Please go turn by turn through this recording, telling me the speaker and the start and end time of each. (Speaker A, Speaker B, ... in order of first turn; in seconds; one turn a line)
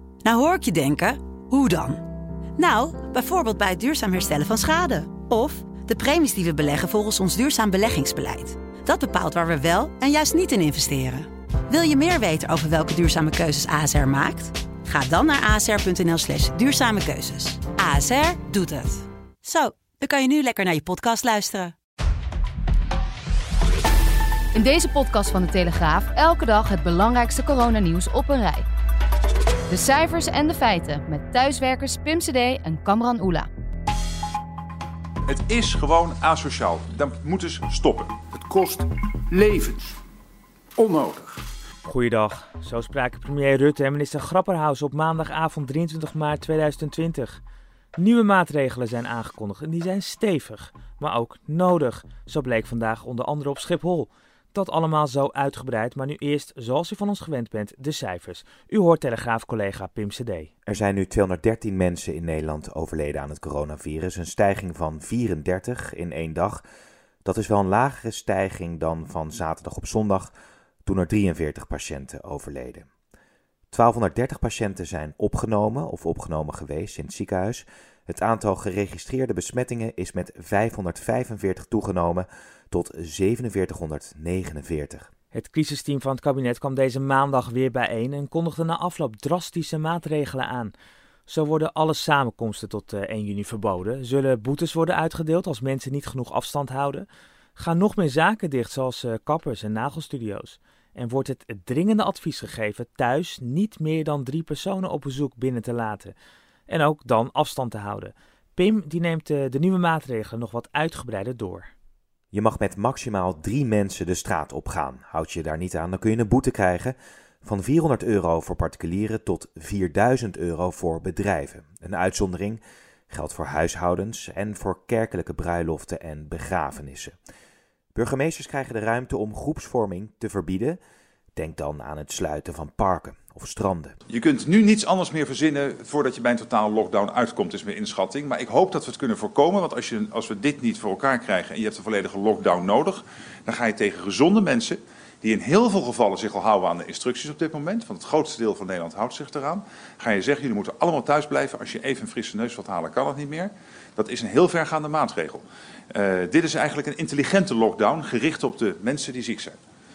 Speaker A: 0.2-2.0
Speaker A: 2.6-21.7
Speaker B: 24.5-28.6
Speaker B: 29.7-33.5
Speaker C: 35.3-38.1
Speaker D: 38.3-39.9
Speaker D: 40.8-41.4
Speaker E: 41.8-47.4
Speaker E: 48.0-60.5
Speaker F: 60.6-66.6
Speaker F: 67.2-70.3
Speaker F: 70.8-72.9
Speaker F: 73.7-85.1
Speaker E: 85.3-90.7
Speaker E: 91.3-106.2
Speaker E: 106.7-111.7
Speaker F: 112.3-127.1
Speaker F: 127.9-130.8
Speaker F: 131.3-133.9
Speaker C: 134.1-159.6